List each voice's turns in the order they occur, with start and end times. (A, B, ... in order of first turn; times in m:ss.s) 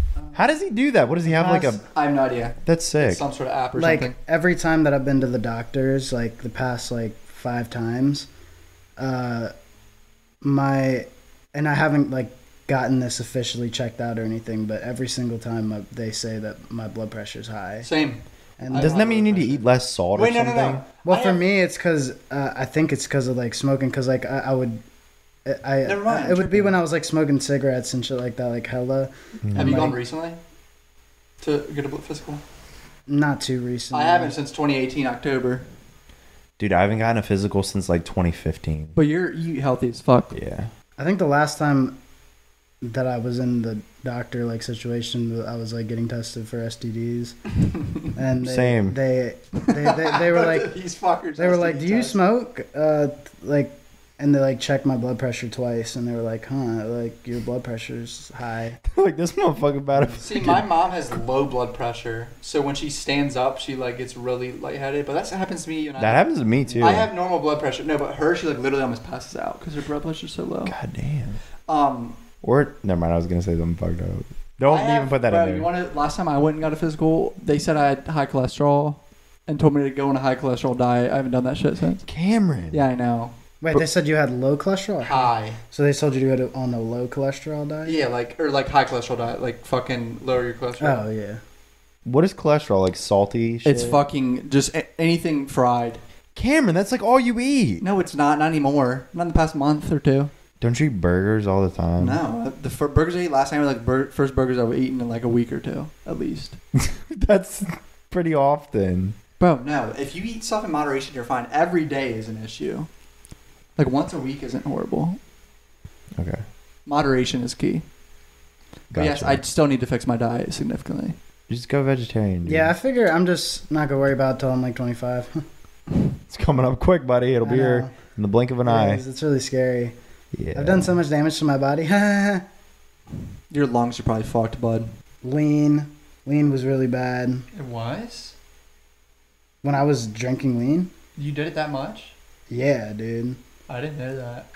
0:00.2-0:00.5 A
0:00.3-0:01.8 B
0:01.3-0:04.2 C
0:02.6-0:03.2 B
0:03.8-0:08.3 A
0:09.0-0:09.5 A
0:10.4-0:17.9 A
0:17.8-0:19.6 C
0:18.6-0:19.0 A
0:18.8-0:20.9 B
0:20.2-0:21.4 C
0:21.0-0:24.8 A
0:25.4-0:30.0 A
0:25.8-0:26.8 C
0:29.4-0:29.9 B
0:29.6-0:30.4 C
0:31.4-0:32.4 C
0:33.1-0:34.4 A
0:33.9-0:35.6 C
0:36.6-0:39.0 B
0:39.0-0:40.3 C
0:40.3-0:40.7 B
0:41.0-0:42.0 A
0:42.8-0:47.4 A
0:48.1-0:50.8 A
0:48.4-0:49.0 B
0:49.6-0:52.2 C
0:51.4-0:58.8 A
0:58.9-1:00.7 B
0:59.9-1:00.2 A
1:00.2-1:06.3 C
1:06.0-1:07.1 B
1:06.8-1:10.8 C
1:10.7-1:11.4 B
1:11.7-1:12.2 C
1:12.4-1:15.7 B
1:14.7-1:22.1 C
1:22.1-1:22.8 B
1:22.7-1:23.3 C
1:23.6-1:28.1 A
1:25.0-1:25.6 C
1:27.9-1:31.0 C
1:30.8-1:31.4 A
1:32.0-1:34.1 B
1:33.6-1:36.0 C
1:36.4-1:37.8 B
1:37.8-1:40.3 C
1:40.6-1:42.2 B
1:42.0-1:46.6 C
1:46.8-1:49.2 B
1:49.4-1:52.9 C
1:53.8-1:55.2 C
1:56.2-1:56.4 B
1:56.9-1:57.8 C
1:58.9-1:59.4 B
1:58.9-2:01.2 C
2:01.5-2:02.7 B
2:02.4-2:05.4 A
2:06.3-2:09.0 B
2:07.4-2:08.0 A
2:08.6-2:10.0 A
2:10.4-2:10.9 B
2:10.6-2:12.4 A
2:13.5-2:14.9 C
2:15.2-2:17.5 A
2:17.5-2:18.4 C
2:19.6-2:20.9 A
2:21.2-2:22.1 C
2:22.5-2:23.4 A
2:23.7-2:24.5 C